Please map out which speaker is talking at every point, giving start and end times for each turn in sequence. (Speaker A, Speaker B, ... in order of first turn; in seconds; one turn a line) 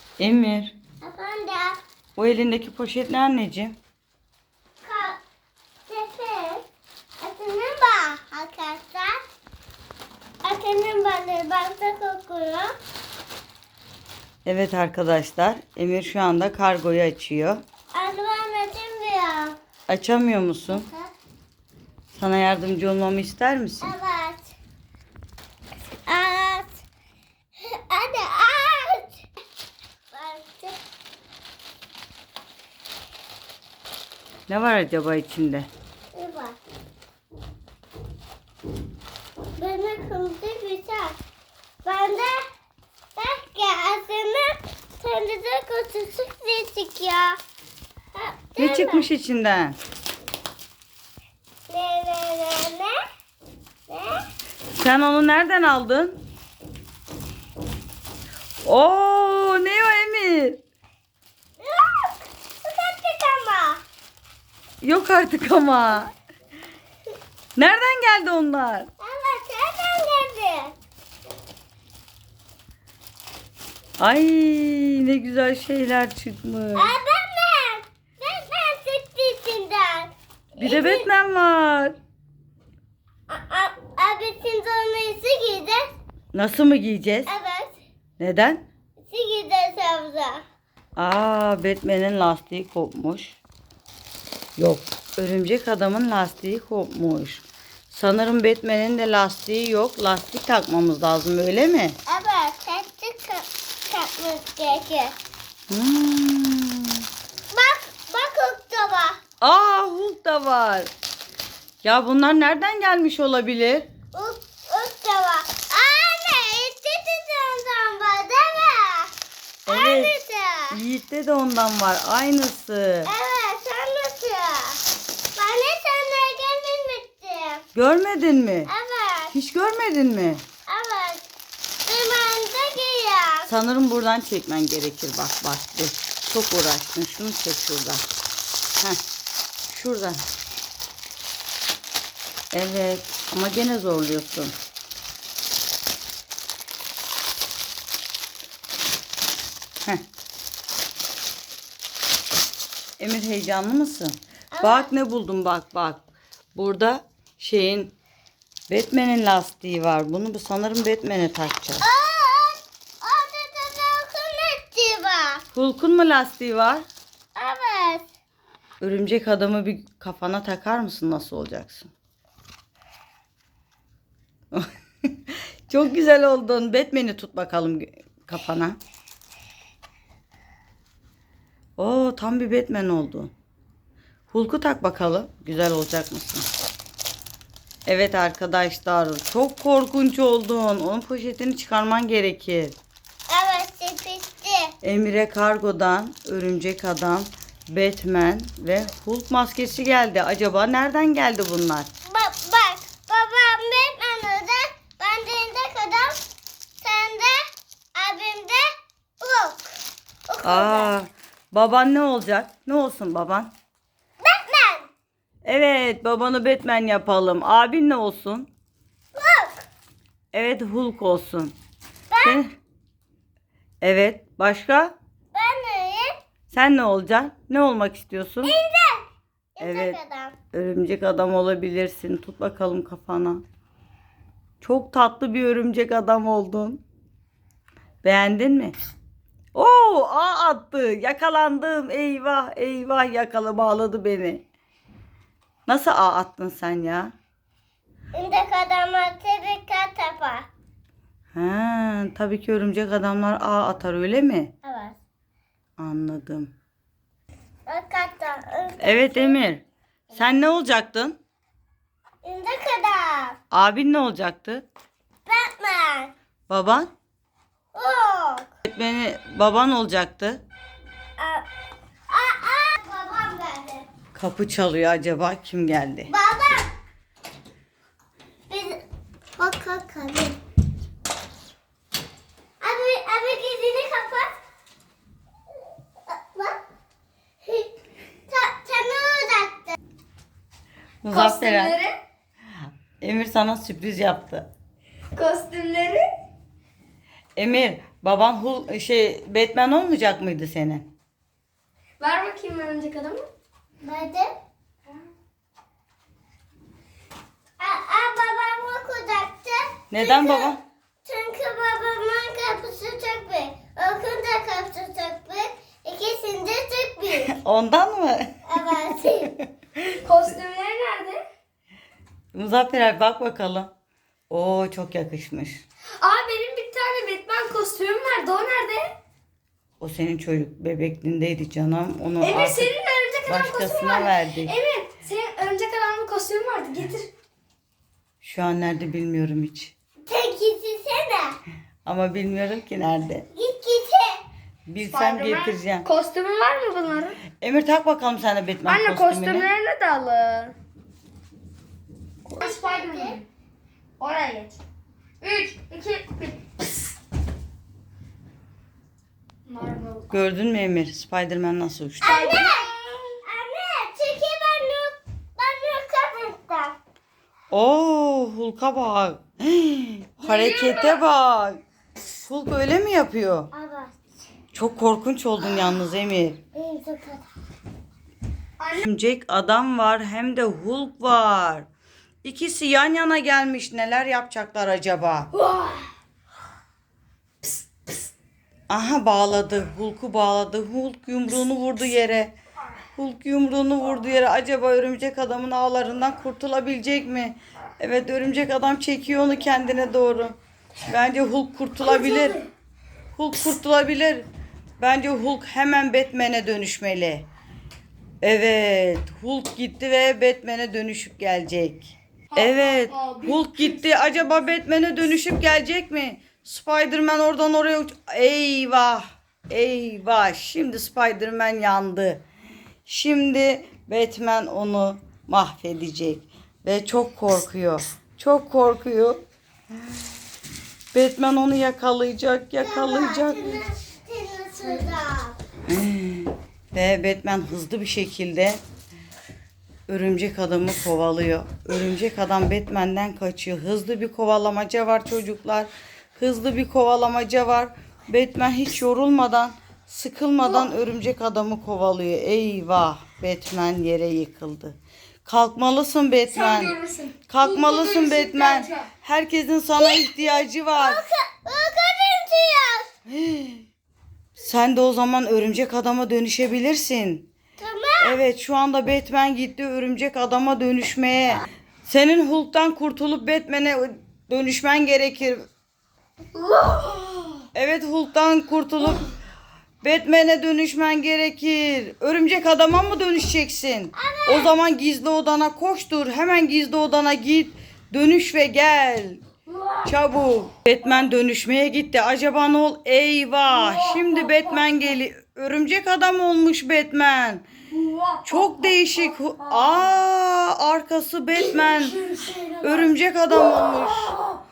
Speaker A: 0.2-0.7
Speaker B: 1.0-1.8
Speaker A: 2.2-3.8
Speaker B: 4.8-5.2
Speaker B: 5.9-6.6
Speaker B: 7.2-9.2
Speaker B: 10.4-12.7
Speaker A: 14.4-17.6
Speaker B: 17.9-19.6
Speaker A: 19.9-20.9
Speaker B: 20.7-21.1
Speaker A: 22.1-23.9
Speaker B: 23.8-24.5
Speaker B: 26.1-26.8
Speaker B: 27.7-29.2
Speaker B: 30.1-30.8
Speaker A: 34.5-35.7
Speaker B: 36.1-36.6
Speaker B: 39.6-41.2
Speaker B: 41.8-42.4
Speaker B: 43.2-47.4
Speaker B: 48.1-49.1
Speaker A: 48.6-49.8
Speaker B: 51.7-53.0
Speaker B: 53.9-54.2
Speaker A: 54.8-56.2
Speaker A: 58.6-60.6
Speaker B: 61.6-63.8
Speaker A: 64.8-66.1
Speaker A: 67.6-68.9
Speaker B: 69.0-70.7
Speaker A: 74.0-76.9
Speaker B: 76.8-81.1
Speaker A: 80.6-82.0
Speaker B: 83.3-85.8
Speaker A: 86.3-87.3
Speaker B: 87.3-87.8
Speaker A: 88.2-88.7
Speaker B: 89.0-90.4
Speaker A: 91.0-93.4
Speaker A: 94.6-102.0
Speaker B: 102.1-105.2
Speaker A: 105.7-106.9
Speaker B: 107.5-109.2
Speaker A: 109.4-110.9
Speaker A: 111.8-113.9
Speaker B: 114.1-119.1
Speaker A: 119.7-120.2
Speaker B: 119.7-120.8
Speaker A: 120.7-123.1
Speaker B: 123.1-124.8
Speaker B: 125.4-127.6
Speaker A: 127.8-128.7
Speaker B: 128.7-129.3
Speaker A: 129.3-130.4
Speaker B: 130.7-131.2
Speaker B: 131.9-133.5
Speaker A: 133.4-138.1
Speaker A: 139.7-140.2
Speaker A: 142.5-144.6
Speaker A: 153.0-156.0
Speaker B: 154.5-154.9
Speaker A: 156.6-157.9
Speaker A: 158.7-161.8
Speaker B: 161.8-165.4
Speaker A: 165.5-166.8
Speaker B: 167.4-168.1
Speaker A: 168.8-171.9
Speaker A: 174.5-178.8
Speaker A: 181.8-183.3
Speaker A: 184.3-186.5
Speaker A: 187.9-192.8
Speaker B: 193.3-194.7
Speaker A: 194.8-201.9
Speaker B: 202.1-206.2
Speaker B: 206.8-207.4
Speaker B: 208.0-208.7
Speaker B: 209.2-209.7
Speaker B: 210.3-210.9
Speaker A: 210.4-213.5
Speaker B: 214.2-214.9
Speaker A: 215.4-218.5
Speaker B: 219.2-219.6
Speaker A: 220.3-221.5
Speaker B: 222.1-222.4
Speaker A: 222.2-222.5
Speaker A: 223.8-224.9
Speaker B: 225.3-226.1
Speaker A: 226.5-228.5
Speaker B: 228.4-230.3
Speaker A: 229.6-230.0
Speaker A: 230.5-233.4
Speaker A: 234.6-236.8
Speaker A: 238.0-238.8
Speaker A: 239.6-244.4
Speaker A: 245.7-247.1
Speaker B: 248.2-250.5
Speaker A: 251.3-254.5
Speaker B: 254.6-255.0
Speaker A: 255.8-256.5
Speaker B: 257.7-259.4
Speaker A: 258.8-261.2
Speaker B: 262.2-263.4
Speaker A: 263.5-264.6
Speaker B: 265.3-266.1
Speaker A: 266.5-266.9
Speaker B: 267.7-268.5
Speaker A: 268.6-270.4
Speaker B: 271.2-271.4
Speaker B: 272.1-273.9
Speaker A: 274.1-276.1
Speaker B: 276.1-276.7
Speaker B: 278.5-278.8
Speaker B: 279.4-280.4
Speaker B: 282.6-284.3
Speaker B: 286.1-286.6
Speaker B: 287.4-287.7
Speaker B: 288.3-289.8
Speaker A: 291.0-291.8
Speaker C: 291.1-292.0
Speaker A: 293.0-294.5
Speaker C: 295.1-296.1
Speaker A: 297.4-300.9
Speaker C: 302.0-303.3
Speaker B: 303.8-304.4
Speaker B: 307.6-317.3
Speaker A: 309.9-310.6
Speaker A: 317.3-319.4
Speaker B: 318.5-319.3
Speaker C: 320.0-321.2
Speaker A: 322.3-323.7
Speaker A: 324.3-325.6
Speaker C: 326.0-328.9
Speaker A: 329.8-332.7
Speaker C: 332.2-337.1
Speaker A: 333.3-334.6
Speaker A: 338.2-339.7
Speaker B: 340.1-341.4
Speaker A: 341.9-343.3
Speaker B: 343.4-344.2
Speaker A: 344.7-345.9
Speaker C: 344.9-347.2
Speaker A: 347.4-349.5
Speaker C: 348.7-350.5
Speaker C: 352.3-353.2
Speaker B: 352.4-353.2
Speaker C: 354.0-354.6
Speaker C: 355.2-356.5
Speaker C: 359.5-360.1
Speaker A: 360.1-362.2
Speaker B: 362.0-362.7
Speaker C: 362.0-363.2
Speaker B: 363.3-366.8
Speaker A: 367.5-371.6
Speaker C: 370.2-371.0
Speaker A: 372.2-373.5
Speaker B: 373.5-374.0
Speaker A: 374.5-376.4
Speaker B: 376.6-377.3
Speaker C: 378.6-378.9
Speaker A: 378.8-381.7
Speaker A: 382.2-385.3
Speaker C: 385.3-385.8
Speaker A: 388.7-392.3
Speaker A: 393.0-400.4
Speaker A: 400.9-402.4
Speaker C: 401.8-402.5
Speaker A: 403.2-404.2
Speaker A: 404.8-407.3
Speaker A: 408.2-422.2
Speaker C: 412.3-414.1
Speaker A: 422.9-429.2
Speaker A: 430.9-433.6
Speaker B: 432.6-435.4
Speaker A: 435.7-438.6
Speaker A: 439.9-456.8
Speaker C: 456.3-458.9
Speaker A: 457.3-461.0
Speaker B: 459.8-462.9
Speaker A: 463.1-463.6
Speaker A: 464.4-467.3
Speaker B: 467.6-468.2
Speaker A: 468.0-475.4
Speaker C: 476.5-477.2
Speaker A: 477.6-479.0
Speaker A: 479.8-489.2
Speaker B: 484.0-484.6
Speaker A: 489.9-497.4
Speaker C: 493.6-494.4
Speaker C: 497.8-498.2
Speaker A: 498.2-502.0
Speaker C: 501.5-502.6
Speaker A: 502.6-504.1